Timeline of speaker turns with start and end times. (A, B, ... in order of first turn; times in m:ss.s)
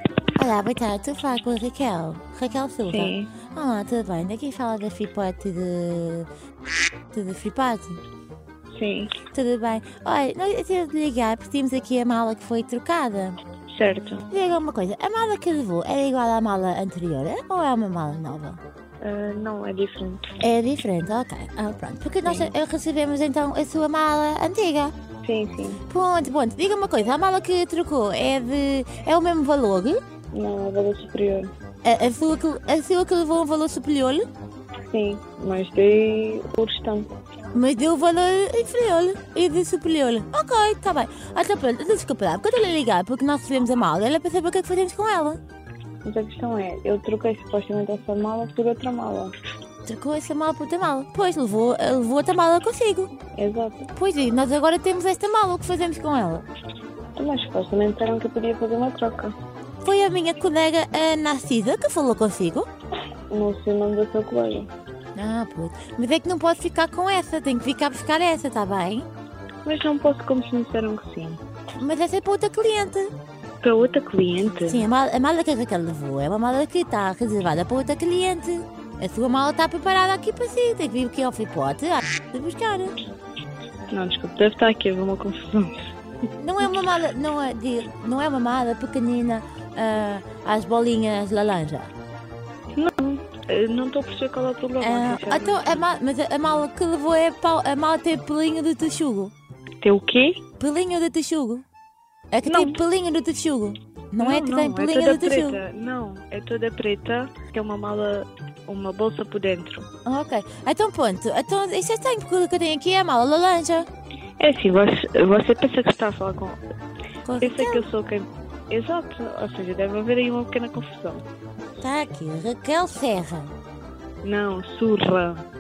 0:00.4-0:06.3 A
0:02.9-0:03.3 B
0:07.1-0:08.0 A
0:08.7-0:09.2 B
0:09.3-0:13.4 A
0:13.7-0:14.3 B
0:14.3-0:18.6 A
0:19.0-0:20.3 B
0:20.4-0:24.9 A
0:22.2-0:22.5 B
0:25.2-0:25.8 B
0:25.9-0:30.0 A
0:30.3-0:31.5 B
0:31.8-0:34.2 A
0:34.9-0:37.1 B
0:37.5-0:45.4 A
0:46.0-0:49.3 B
0:49.8-0:53.1 A
0:53.3-0:53.9 B
0:53.9-0:56.4 A
0:57.2-0:59.3 B
0:59.8-1:02.7 A
1:03.3-1:04.7 B
1:05.1-1:09.1 A
1:09.6-1:11.4 B
1:11.8-1:13.1 A
1:13.6-1:14.9 B
1:14.6-1:22.9 A
1:23.9-1:25.9 B
1:26.4-1:31.9 A
1:32.7-1:35.9 B
1:34.8-1:39.3 A
1:39.8-1:40.4 B
1:40.6-1:41.6 A
1:42.3-1:45.6 A
1:42.4-1:42.8 B
1:44.2-1:49.9 B
1:50.0-1:53.9 A
1:54.4-1:56.6 B
1:57.2-1:57.8 A
1:57.4-2:01.2 B
2:01.8-2:03.5 A
2:04.2-2:05.4 B